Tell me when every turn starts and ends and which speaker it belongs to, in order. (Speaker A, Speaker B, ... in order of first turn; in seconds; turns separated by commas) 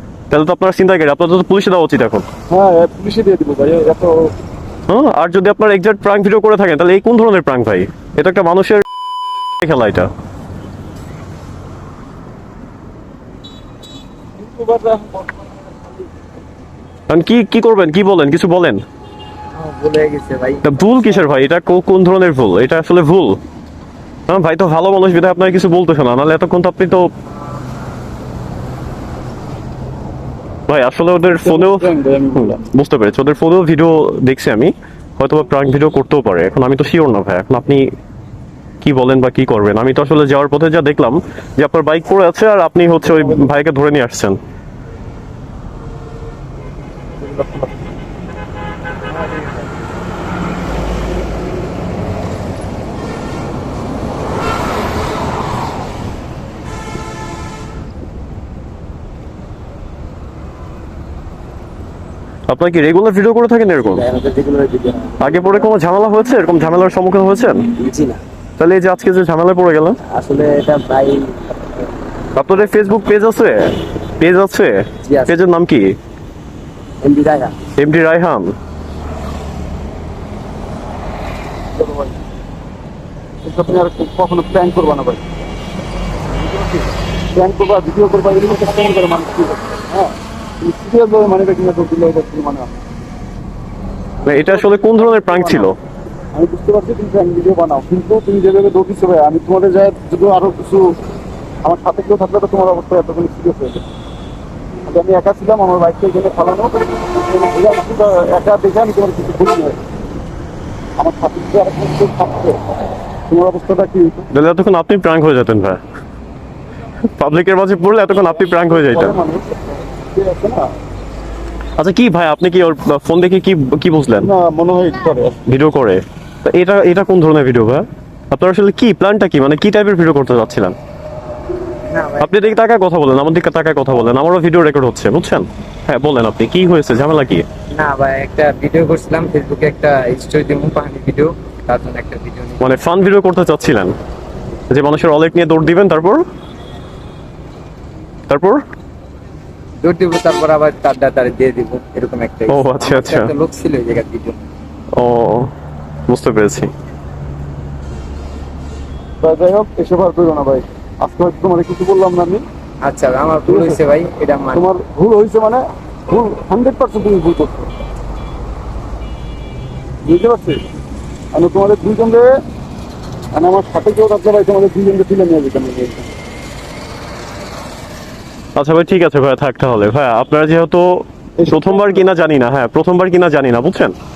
Speaker A: 0.3-2.2, Speaker B: 2.5-4.3, Speaker A: 4.9-8.8, Speaker A: 9.6-10.1, Speaker B: 14.4-15.9, Speaker A: 17.1-18.8, Speaker C: 19.6-20.9, Speaker A: 20.6-23.4, Speaker A: 24.3-27.1, Speaker A: 30.7-37.9, Speaker B: 31.3-32.6, Speaker A: 38.8-44.4, Speaker B: 43.1-43.4, Speaker B: 47.2-47.7, Speaker A: 62.5-64.1, Speaker C: 63.9-65.3, Speaker A: 65.2-67.7, Speaker C: 67.8-68.2, Speaker A: 68.6-70.0, Speaker C: 70.1-71.5, Speaker A: 72.4-75.9, Speaker C: 75.0-75.4, Speaker C: 77.0-77.6, Speaker A: 77.8-78.5, Speaker B: 81.8-82.2, Speaker B: 83.4-85.2, Speaker B: 86.3-92.8, Speaker A: 94.3-95.8, Speaker B: 94.3-95.7, Speaker B: 96.3-100.9, Speaker B: 101.6-103.8, Speaker B: 104.9-109.8, Speaker B: 111.0-112.6, Speaker B: 113.3-114.3, Speaker A: 114.3-115.8, Speaker A: 117.2-119.2, Speaker B: 118.5-120.7, Speaker A: 121.8-124.3, Speaker B: 124.2-125.4, Speaker A: 125.5-130.8, Speaker C: 131.8-132.6, Speaker A: 132.2-137.4, Speaker C: 137.7-142.6, Speaker A: 142.6-143.9, Speaker A: 144.7-146.2, Speaker A: 148.3-148.6, Speaker C: 149.8-154.4, Speaker A: 152.5-153.3, Speaker A: 155.0-155.5, Speaker A: 156.1-156.7, Speaker B: 159.2-162.4, Speaker C: 162.8-164.7, Speaker B: 163.5-163.8, Speaker B: 164.5-167.7, Speaker B: 170.1-170.6, Speaker B: 171.3-172.3, Speaker B: 173.3-176.2, Speaker A: 178.6-183.9, Speaker B: 181.4-182.1